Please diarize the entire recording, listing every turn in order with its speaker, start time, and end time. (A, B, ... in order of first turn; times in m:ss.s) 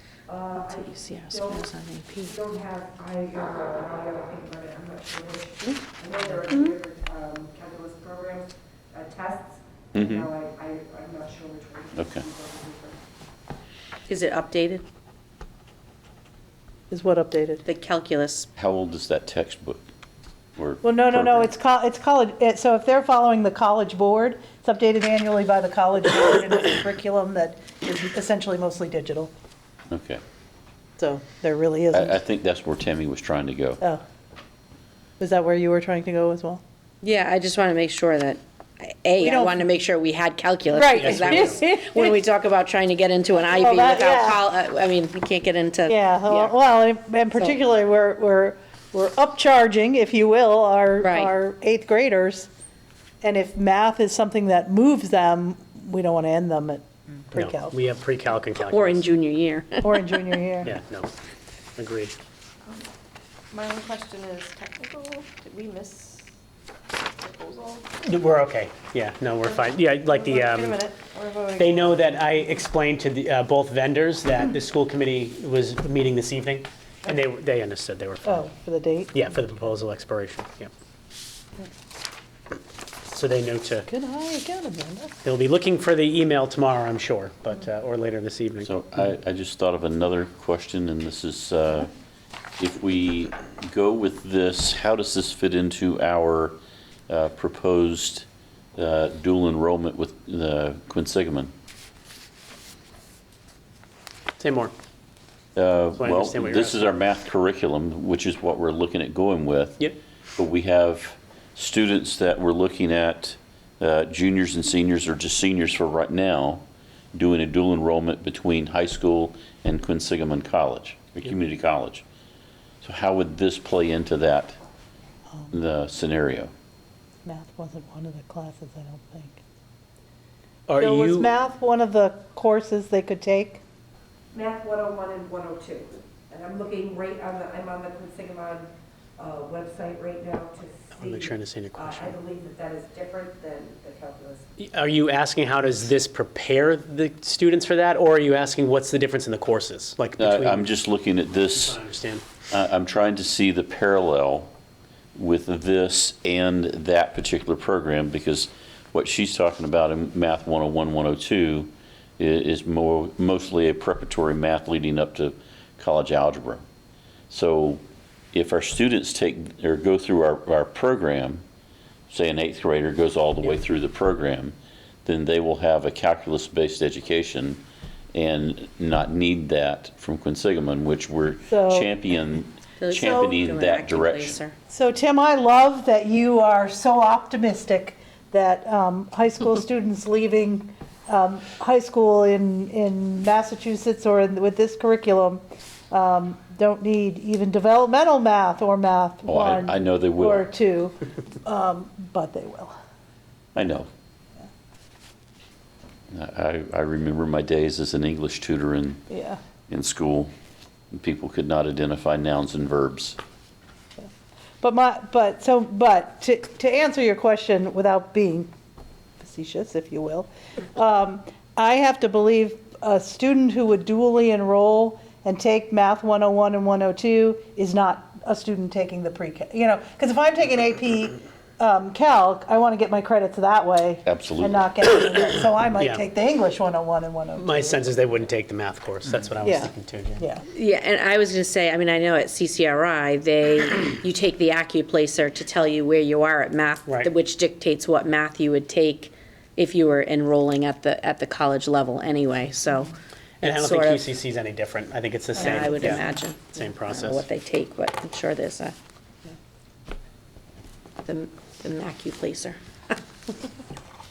0:00.3-0:01.6 A
0:00.6-0:02.4 B
0:02.2-0:13.0 A
0:06.5-0:06.8 B
0:09.9-0:10.3 C
0:11.9-0:12.3 C
0:14.1-0:14.8 B
0:16.9-0:17.6 D
0:17.6-0:18.5 B
0:18.6-0:19.8 C
0:20.6-0:21.5 C
0:20.8-0:29.3 D
0:29.9-0:30.2 C
0:31.0-0:32.2 D
0:31.9-0:33.8 C
0:35.2-0:36.6 D
0:37.0-0:46.5 B
0:39.2-0:39.6 D
0:40.7-0:42.2 D
0:41.0-0:41.4 E
0:43.5-0:44.4 D
0:45.9-0:52.5 D
0:51.0-0:51.3 B
0:53.2-0:57.8 D
0:57.4-0:59.1 E
0:58.6-1:00.4 B
0:59.8-1:00.8 D
1:00.6-1:01.1 E
1:01.8-1:02.2 E
1:03.5-1:06.3 F
1:07.1-1:07.9 F
1:08.0-1:10.8 E
1:10.1-1:11.9 F
1:11.6-1:18.4 E
1:18.2-1:19.2 D
1:19.1-1:20.7 E
1:23.1-1:23.9 E
1:23.9-1:25.2 D
1:25.2-1:28.7 E
1:28.6-1:31.9 C
1:32.6-1:36.6 C
1:37.1-1:41.5 C
1:44.4-1:44.7 E
1:45.6-1:49.9 C
1:46.0-1:46.9 E
1:50.4-1:56.6 C
1:57.1-2:02.0 C
2:02.8-2:04.6 C
2:05.5-2:06.5 C
2:07.2-2:09.4 D
2:10.7-2:11.2 E
2:10.8-2:13.6 D
2:14.3-2:18.7 A
2:19.2-2:24.5 A
2:20.9-2:22.2 E
2:24.6-2:30.6 E
2:30.2-2:31.8 C
2:31.6-2:32.2 E
2:32.5-2:34.5 C
2:35.2-2:46.6 C
2:47.3-2:51.4 C
2:52.1-2:57.6 C
2:58.1-3:04.4 C
3:01.5-3:01.9 D
3:02.8-3:04.6 B
3:04.7-3:22.8 D
3:19.2-3:20.5 C
3:23.6-3:23.9 C
3:26.1-3:29.0 C
3:29.1-3:29.4 D
3:29.7-3:30.3 C
3:30.9-3:33.2 C
3:34.6-3:38.5 D
3:39.2-3:57.9 D
3:54.1-3:54.6 C
3:57.4-4:00.2 E
3:59.4-4:00.4 D
4:00.5-4:14.1 B
4:13.4-4:16.0 E
4:15.4-4:18.8 B
4:15.4-4:16.1 D
4:16.6-4:17.2 E
4:21.0-4:22.6 B